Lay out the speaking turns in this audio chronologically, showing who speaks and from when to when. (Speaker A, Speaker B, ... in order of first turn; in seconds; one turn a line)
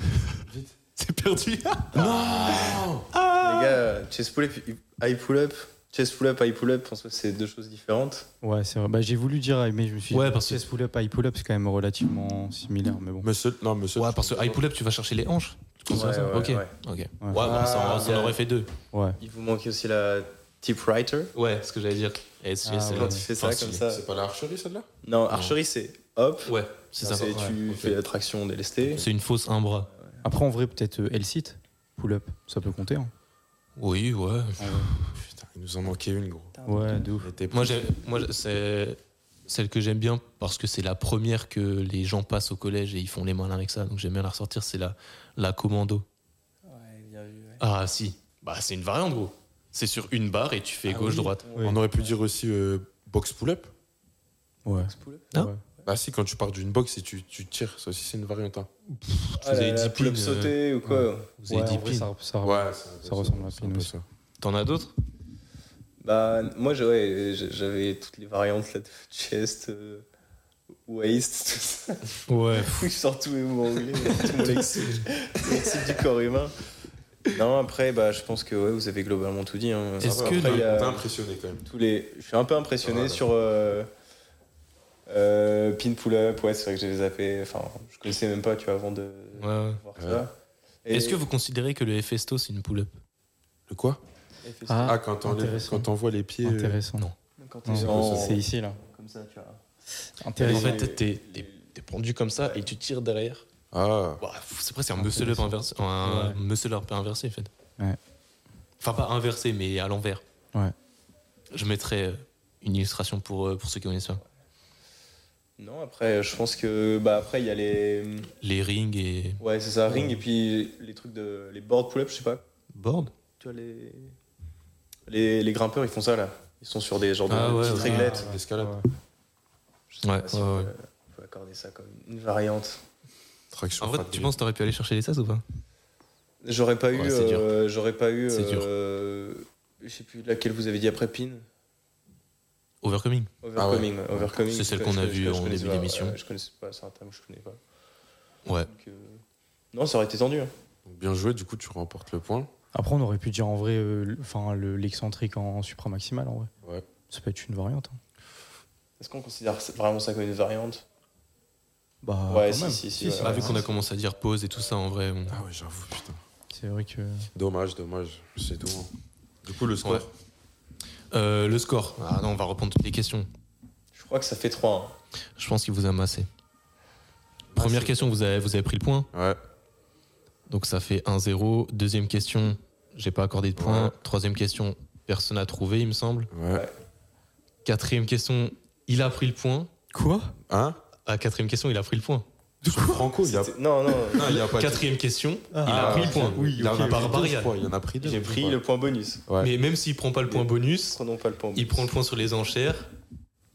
Speaker A: 0.5-0.7
Speaker B: 1.0-3.8
Speaker A: 1.9-3.1
Speaker C: 3.4-8.3
Speaker D: 8.4-13.3
Speaker B: 10.1-10.6
Speaker A: 13.2-14.6
Speaker B: 13.9-18.7
Speaker C: 15.9-16.7
Speaker A: 17.4-18.4
Speaker C: 17.7-18.3
Speaker D: 18.9-19.2
Speaker C: 19.2-21.3
Speaker B: 21.4-23.8
Speaker D: 22.6-23.2
Speaker C: 22.9-24.0
Speaker A: 23.5-24.9
Speaker C: 25.0-29.1
Speaker B: 25.3-25.6
Speaker B: 26.4-27.9
Speaker D: 27.1-27.6
Speaker B: 28.9-29.9
Speaker D: 30.2-33.1
Speaker B: 33.8-35.1
Speaker D: 34.6-34.9
Speaker A: 35.1-36.5
Speaker C: 36.5-37.1
Speaker D: 36.6-37.3
Speaker A: 37.1-37.9
Speaker B: 37.5-46.0
Speaker C: 46.6-47.6
Speaker B: 47.6-51.4
Speaker C: 50.9-52.1
Speaker A: 51.6-53.7
Speaker D: 54.6-55.6
Speaker C: 54.8-55.3
Speaker A: 55.9-58.7
Speaker B: 58.9-60.5
Speaker C: 59.3-61.3
Speaker D: 60.9-63.9
Speaker B: 61.4-62.1
Speaker A: 62.4-64.0
Speaker B: 64.4-64.9
Speaker C: 66.0-70.0
Speaker C: 70.9-76.5
Speaker B: 72.3-72.9
Speaker B: 74.2-75.0
Speaker C: 77.2-81.1
Speaker B: 80.0-80.7
Speaker A: 80.0-81.6
Speaker C: 81.6-83.9
Speaker A: 82.8-83.2
Speaker C: 85.1-90.3
Speaker B: 89.4-89.8
Speaker A: 90.0-90.2
Speaker C: 90.8-91.2
Speaker B: 90.9-92.9
Speaker A: 93.7-94.0
Speaker C: 94.4-95.0
Speaker D: 94.7-95.9
Speaker A: 94.8-96.8
Speaker D: 96.4-97.1
Speaker C: 97.4-99.6
Speaker D: 97.7-98.8
Speaker A: 97.8-98.4
Speaker D: 100.2-100.9
Speaker C: 100.4-101.5
Speaker B: 100.4-103.4
Speaker A: 103.7-104.2
Speaker B: 104.2-107.5
Speaker D: 105.0-106.4
Speaker B: 108.8-110.2
Speaker B: 111.5-114.2
Speaker C: 115.6-118.3
Speaker B: 118.4-119.4
Speaker C: 119.4-122.4
Speaker D: 119.9-120.2
Speaker B: 122.7-123.1
Speaker C: 123.4-124.1
Speaker C: 125.1-128.2
Speaker B: 127.3-128.2
Speaker A: 127.3-128.8
Speaker D: 127.8-128.9
Speaker C: 129.9-132.8
Speaker B: 130.0-130.7
Speaker A: 133.5-134.3
Speaker B: 133.8-135.4
Speaker C: 136.4-141.4
Speaker B: 136.9-137.5
Speaker B: 138.3-138.7
Speaker B: 142.8-143.3
Speaker C: 143.4-147.6
Speaker A: 143.6-144.3
Speaker B: 144.5-146.2
Speaker C: 148.7-149.2
Speaker C: 149.7-150.5
Speaker A: 150.8-152.5
Speaker D: 152.7-156.5
Speaker D: 157.1-158.0
Speaker C: 159.0-160.8
Speaker D: 162.0-163.6
Speaker C: 162.3-163.7
Speaker B: 163.2-165.4
Speaker A: 165.3-166.2
Speaker D: 166.5-167.3
Speaker A: 167.3-168.9
Speaker A: 169.4-170.1
Speaker B: 171.1-173.3
Speaker C: 173.9-174.9
Speaker B: 175.4-176.3
Speaker A: 177.5-178.1
Speaker B: 177.5-179.1
Speaker A: 179.1-179.4
Speaker B: 180.5-186.3
Speaker A: 183.6-183.9
Speaker A: 186.3-186.7
Speaker B: 187.6-189.7
Speaker D: 189.9-190.3
Speaker A: 190.5-190.8
Speaker B: 191.0-192.2
Speaker A: 192.6-194.9
Speaker D: 192.7-193.0
Speaker C: 193.2-194.4
Speaker B: 194.2-197.5
Speaker D: 195.5-197.2
Speaker A: 195.7-198.6
Speaker C: 198.0-199.2
Speaker A: 199.3-199.5
Speaker B: 199.4-201.0
Speaker C: 200.3-201.9
Speaker B: 201.5-202.9